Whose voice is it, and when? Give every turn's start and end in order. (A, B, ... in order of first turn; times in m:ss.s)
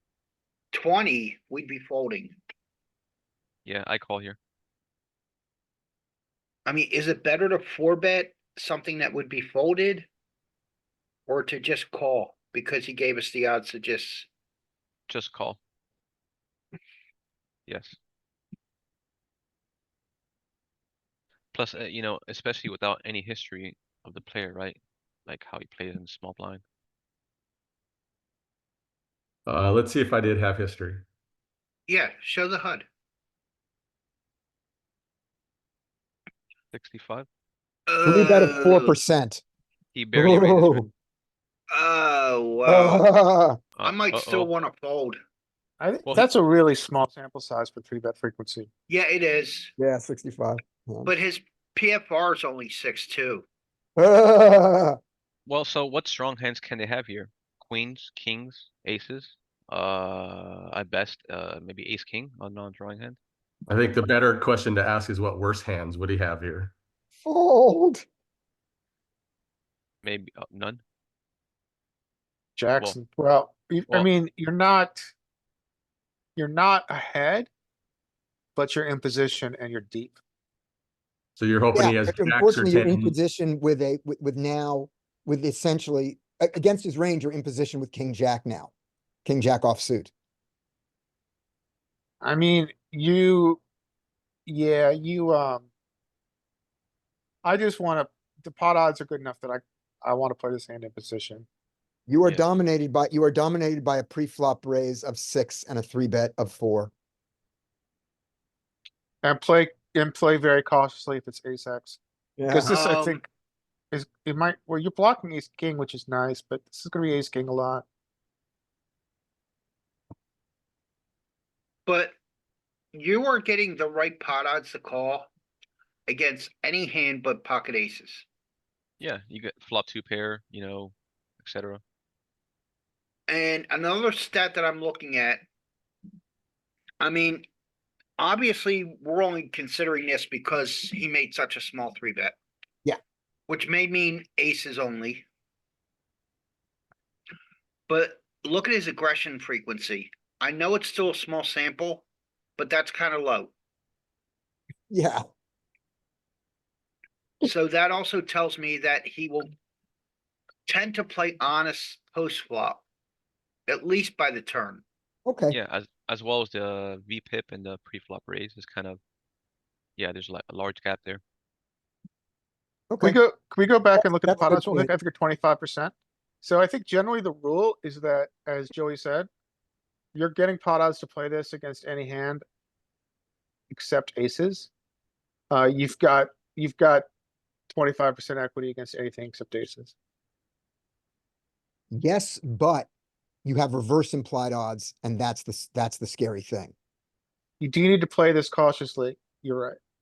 0:00.7-0:02.4 A
0:03.6-0:04.4 B
0:06.6-0:10.1 A
0:11.3-0:14.3 A
0:15.1-0:15.6 B
0:17.7-0:18.0 B
0:21.5-0:26.6 B
0:29.5-0:31.0 C
0:31.9-0:32.8 A
0:36.7-0:37.3 B
0:37.9-0:39.0 A
0:38.0-0:39.4 D
0:39.9-0:40.9 B
0:40.1-0:40.8 D
0:41.7-0:43.0 A
0:42.6-0:43.6 D
0:43.7-0:44.5 B
0:43.8-0:45.2 A
0:45.8-0:48.7 E
0:48.9-0:49.7 A
0:49.8-0:51.1 D
0:51.0-0:53.4 A
0:54.0-0:55.0 D
0:55.4-1:03.2 B
1:03.7-1:06.7 C
1:07.2-1:08.0 D
1:10.0-1:10.8 B
1:12.6-1:15.1 E
1:16.4-1:17.5 E
1:18.6-1:20.2 E
1:21.4-1:23.1 C
1:21.7-1:28.7 D
1:29.2-1:30.1 D
1:32.2-1:33.6 E
1:34.4-1:35.7 E
1:37.4-1:41.4 E
1:42.1-1:46.9 D
1:49.2-1:53.2 E
1:52.4-1:52.7 D
1:52.7-1:53.2 A
1:53.9-1:57.8 E
2:01.9-2:02.1 A
2:02.9-2:05.3 A
2:06.1-2:08.2 A
2:09.0-2:11.8 B
2:13.3-2:15.4 A
2:17.0-2:17.4 A
2:18.2-2:22.4 A
2:23.5-2:25.2 A
2:27.9-2:32.0 A
2:32.6-2:33.5 A
2:34.9-2:35.2 D
2:37.4-2:39.5 A
2:40.7-2:42.8 A
2:43.7-2:44.8 A
2:45.2-2:45.6 D
2:45.5-2:49.0 B
2:50.0-2:51.2 B
2:52.9-2:53.2 D
2:53.0-2:59.3 E
2:54.0-2:54.9 D
3:00.1-3:02.4 E
3:03.7-3:04.7 E
3:05.5-3:07.0 E
3:07.7-3:09.9 E
3:11.9-3:12.9 D
3:13.4-3:16.7 D
3:17.6-3:19.8 E